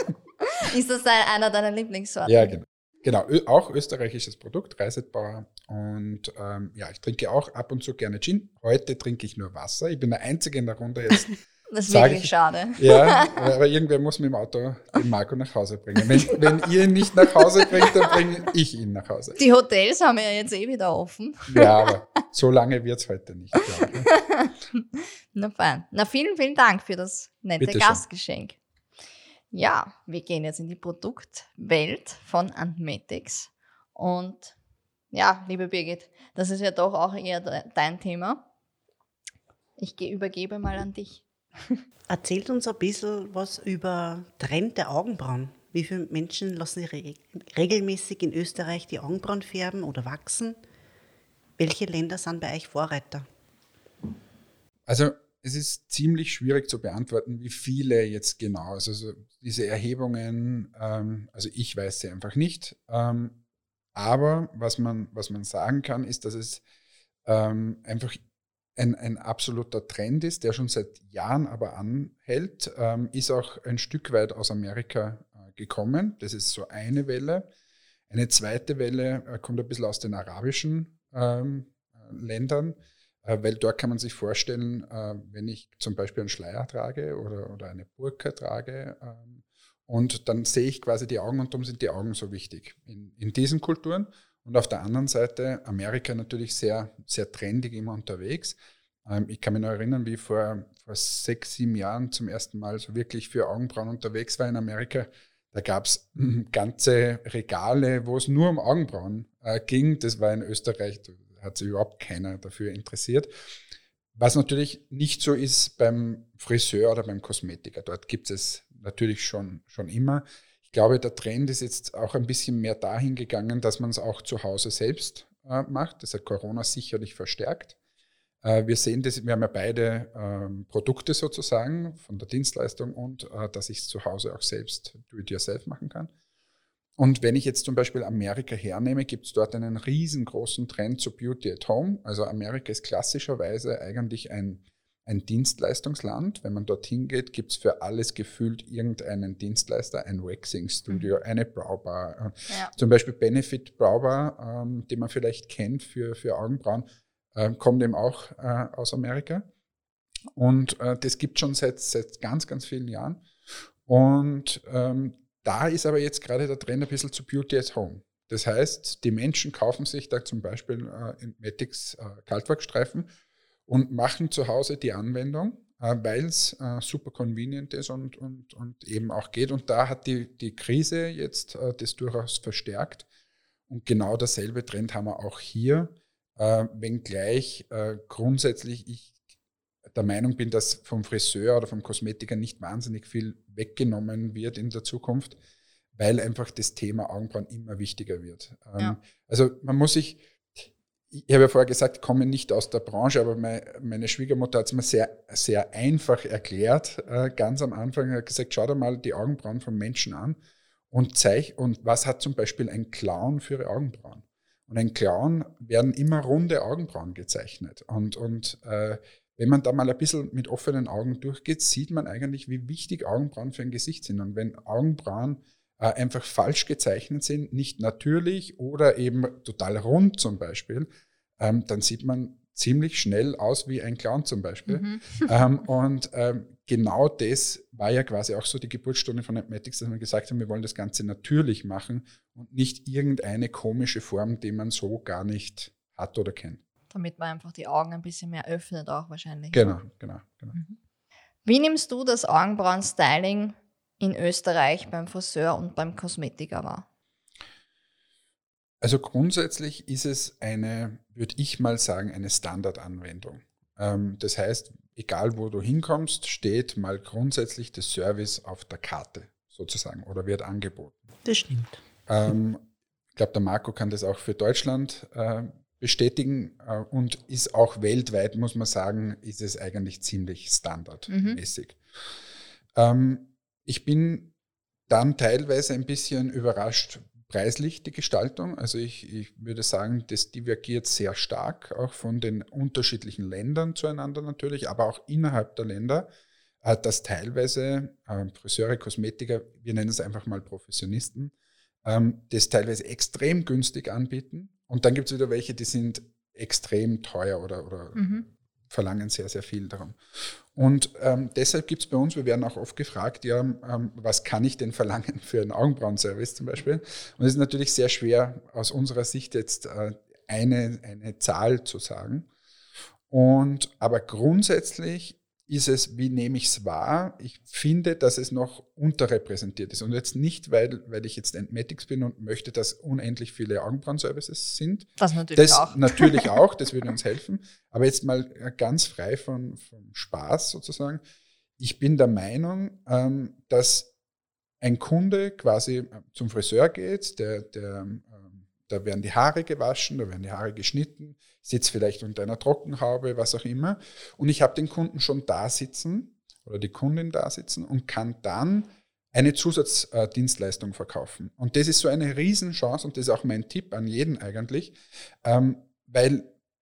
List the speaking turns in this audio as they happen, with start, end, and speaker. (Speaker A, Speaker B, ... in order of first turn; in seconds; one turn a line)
Speaker A: 0.5-2.5
Speaker B: 2.3-11.3
Speaker A: 11.7-13.4
Speaker B: 11.9-19.4
Speaker A: 19.4-21.7
Speaker B: 21.5-24.1
Speaker A: 24.1-28.6
Speaker B: 27.6-28.0
Speaker A: 29.5-34.5
Speaker A: 35.1-38.4
Speaker A: 39.8-41.8
Speaker C: 42.1-50.6
Speaker C: 51.6-53.3
Speaker B: 54.9-63.4
Speaker B: 64.0-66.6
Speaker B: 67.3-68.2
Speaker B: 68.8-77.5
Speaker B: 78.1-113.3
Speaker B: 114.2-127.8
Speaker B: 128.4-136.1
Speaker B: 137.0-159.5
Speaker B: 160.3-163.3
Speaker B: 163.8-173.1
Speaker B: 173.7-183.1
Speaker B: 183.7-189.1
Speaker B: 189.9-195.4
Speaker B: 195.9-210.4
Speaker B: 210.9-246.6
Speaker A: 234.7-235.3
Speaker A: 246.9-249.8
Speaker B: 249.5-250.6
Speaker A: 251.4-256.9
Speaker B: 258.8-271.0
Speaker C: 271.2-271.8
Speaker B: 272.1-281.8
Speaker A: 281.1-281.4
Speaker B: 282.8-284.3
Speaker B: 284.9-296.1
Speaker B: 296.6-301.3
Speaker B: 301.9-322.3
Speaker A: 308.0-308.2
Speaker B: 323.1-341.0
Speaker A: 335.0-336.3
Speaker B: 341.6-343.9
Speaker B: 344.6-366.3